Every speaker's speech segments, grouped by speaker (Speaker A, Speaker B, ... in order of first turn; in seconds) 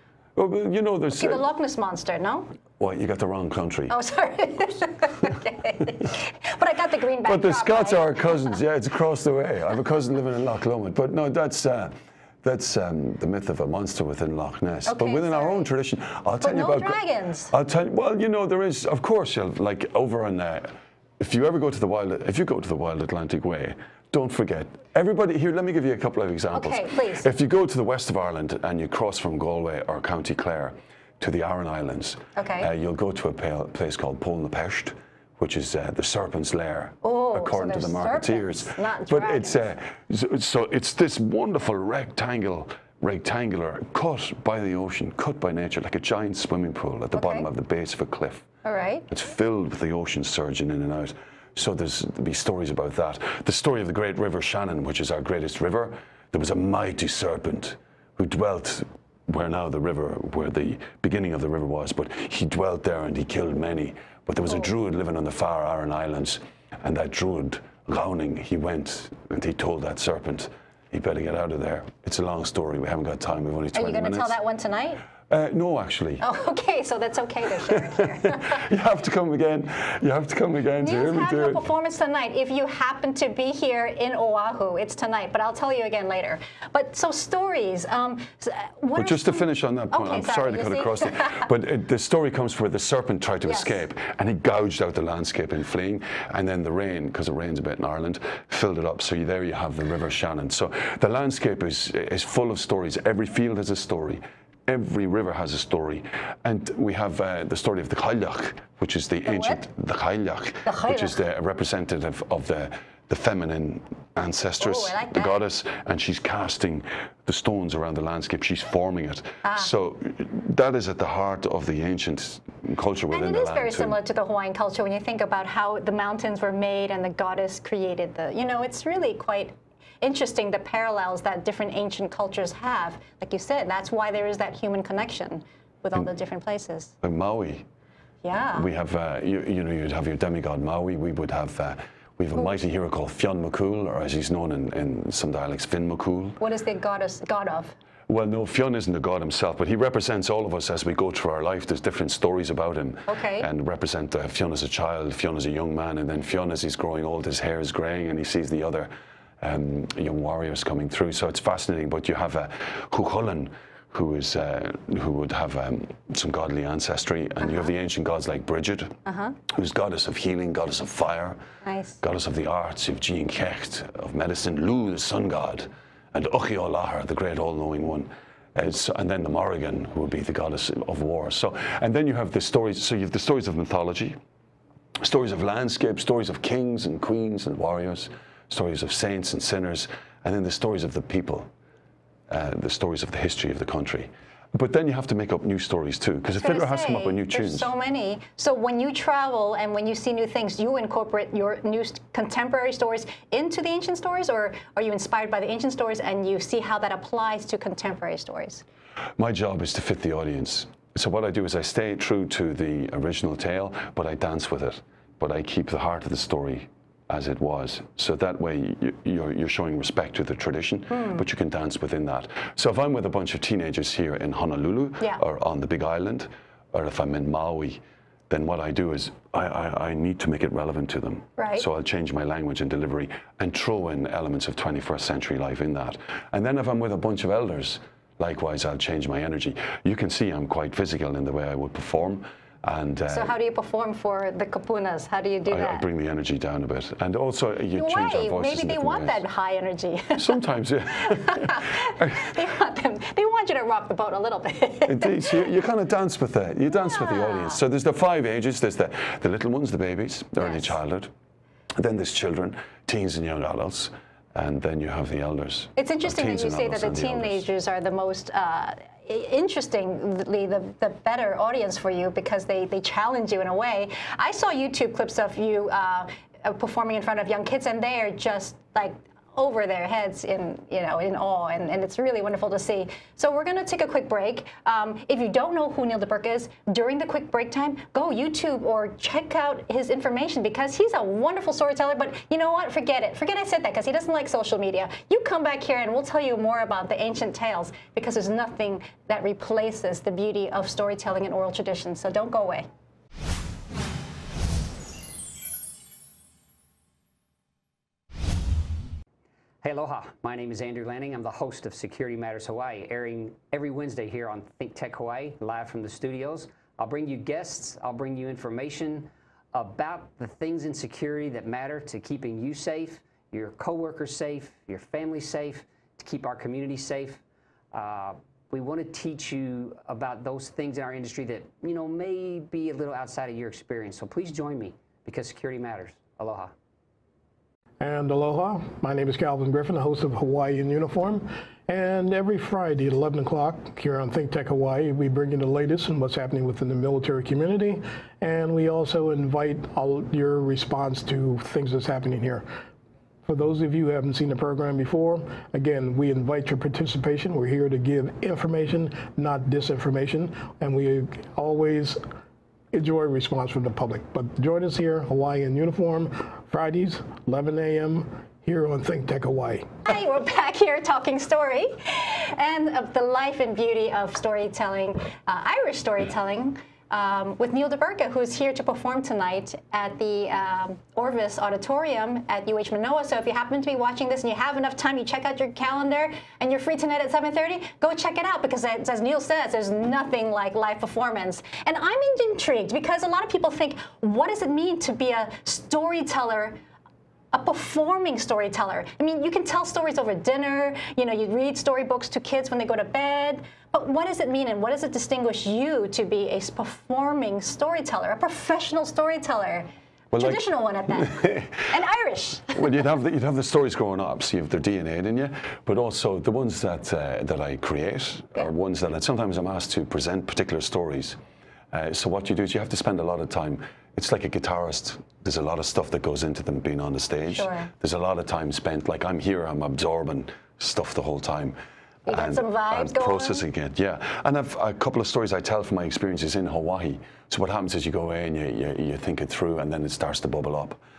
Speaker A: 0.3-1.4, 2.8-4.0, 7.2-48.5, 49.1-74.4, 75.3-76.2, 77.7-81.7, 88.9-124.0, 137.0-137.7, 138.5-146.4, 148.1-171.4, 172.0-184.2, 185.0-191.5, 192.3-197.7, 209.2-243.3, 245.5-249.2, 250.1-252.3, 254.8-261.1, 261.8-267.4, 410.1-411.6, 412.5-421.2, 421.7-431.6, 432.1-440.8
Speaker B: 1.1-2.5, 3.9-8.6, 14.9-15.7, 16.4-17.5, 26.5-27.3, 32.4-32.7, 37.0-39.7, 47.1-47.5, 48.6-49.0, 73.7-75.0, 76.2-78.6, 80.8-91.5, 93.5-93.7, 109.2-109.6, 110.6-111.2, 114.6-115.4, 119.4-119.7, 123.1-136.9, 138.2-138.7, 146.4-147.7, 153.1-153.5, 169.1-169.3, 171.6-172.0, 196.3-208.6, 220.9-221.2, 231.4-231.7, 243.1-245.8, 247.8-250.4, 251.0-255.5, 256.7-257.6, 260.4-260.7, 265.8-302.7, 369.8-396.6, 397.3-412.8, 427.3-427.7, 432.1-433.4
Speaker C: 309.6-327.2, 327.7-336.5
Speaker D: 337.8-352.4, 353.2-362.0, 362.7-369.7